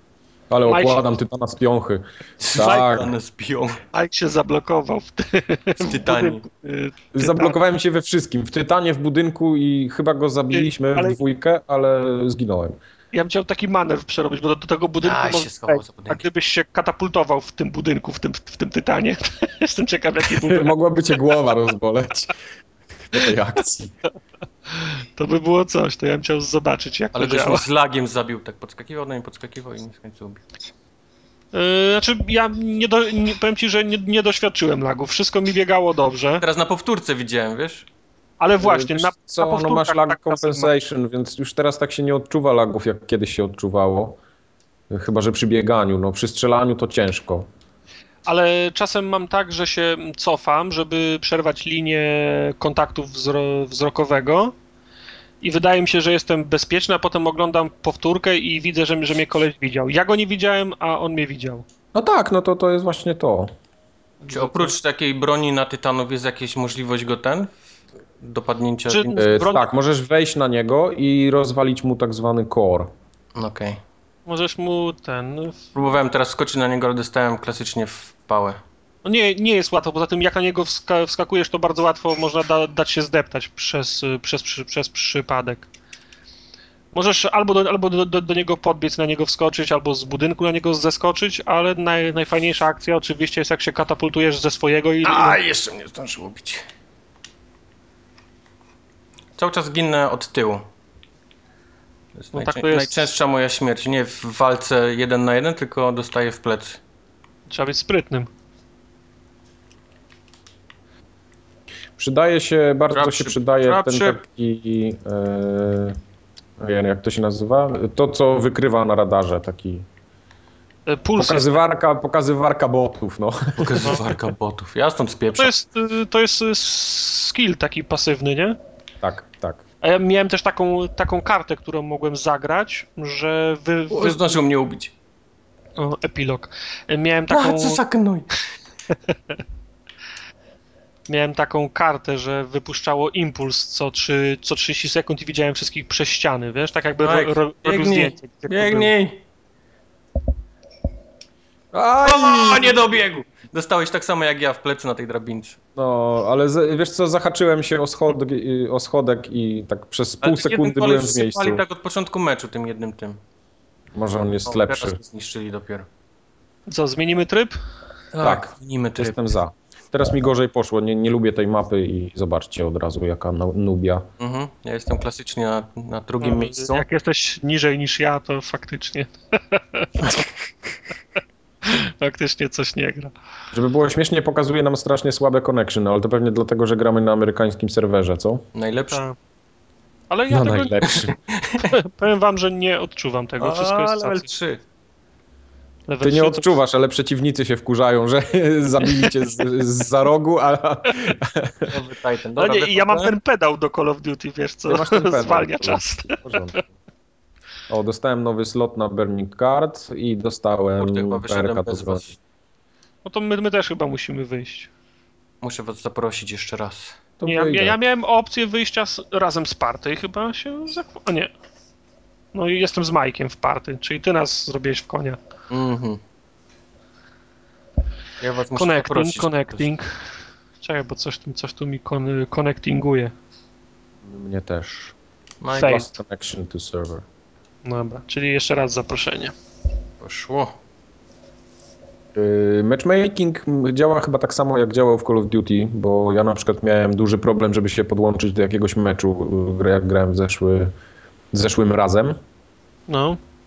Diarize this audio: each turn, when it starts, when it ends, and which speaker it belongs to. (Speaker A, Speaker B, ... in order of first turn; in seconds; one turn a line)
Speaker A: 0.5-3.1
Speaker B: 0.7-1.1
Speaker C: 2.4-3.8
Speaker B: 3.9-7.6
Speaker C: 5.8-6.5
Speaker A: 7.1-12.8
Speaker B: 10.5-11.2
Speaker B: 13.1-20.7
Speaker C: 15.0-16.3
Speaker A: 20.3-22.4
Speaker A: 23.0-23.9
Speaker B: 24.7-27.6
Speaker C: 27.1-30.4
Speaker B: 31.5-36.4
Speaker C: 36.4-37.9
Speaker B: 38.4-40.7
Speaker A: 38.6-44.2
Speaker A: 44.9-47.5
Speaker B: 48.3-54.5
Speaker B: 55.4-61.6
Speaker A: 61.9-63.5
Speaker B: 64.2-64.7
Speaker C: 64.3-67.5
Speaker C: 68.2-69.3
Speaker B: 68.9-69.7
Speaker A: 69.2-72.9
Speaker C: 73.3-73.8
Speaker B: 74.3-75.6
Speaker C: 75.8-78.6
Speaker B: 79.0-85.7
Speaker B: 86.9-95.4
Speaker C: 95.0-96.6
Speaker C: 99.4-100.7
Speaker C: 102.2-106.8
Speaker B: 102.3-103.1
Speaker B: 107.5-108.3
Speaker A: 112.0-116.0
Speaker C: 112.9-114.2
Speaker A: 116.6-119.9
Speaker B: 120.9-121.6
Speaker A: 121.2-124.0
Speaker C: 123.6-125.5
Speaker B: 125.4-128.6
Speaker A: 129.0-129.6
Speaker B: 129.8-134.3
Speaker C: 133.9-134.9
Speaker B: 135.8-137.8
Speaker C: 137.3-138.3
Speaker B: 141.1-148.9
Speaker C: 147.0-149.2
Speaker A: 151.7-152.8
Speaker C: 152.0-155.6
Speaker A: 155.8-161.6
Speaker C: 160.2-163.2
Speaker A: 163.9-165.0
Speaker C: 164.5-165.9
Speaker B: 166.7-167.6
Speaker C: 168.1-169.2
Speaker A: 168.2-174.1
Speaker C: 174.2-176.8
Speaker B: 176.2-180.1
Speaker B: 181.6-183.1
Speaker A: 183.5-188.4
Speaker C: 188.5-189.0
Speaker B: 188.9-189.2
Speaker B: 190.1-190.9
Speaker A: 190.3-191.2
Speaker C: 190.9-191.7
Speaker B: 191.7-194.3
Speaker C: 193.4-194.6
Speaker B: 195.9-196.5
Speaker A: 196.0-201.7
Speaker C: 201.7-203.1
Speaker B: 202.4-206.4
Speaker A: 204.7-206.7
Speaker A: 207.7-212.1
Speaker C: 210.8-212.1
Speaker B: 213.1-214.7
Speaker C: 215.4-217.0
Speaker A: 217.2-217.8
Speaker B: 217.3-221.3
Speaker B: 222.3-225.2
Speaker C: 225.5-226.0
Speaker C: 228.2-229.7
Speaker B: 228.6-230.1
Speaker B: 230.6-233.1
Speaker A: 234.0-235.0
Speaker C: 235.4-235.9
Speaker B: 235.5-235.9
Speaker A: 235.6-237.1
Speaker B: 237.7-239.3
Speaker C: 240.0-240.5
Speaker A: 242.2-250.7
Speaker A: 251.3-252.2
Speaker B: 252.9-253.2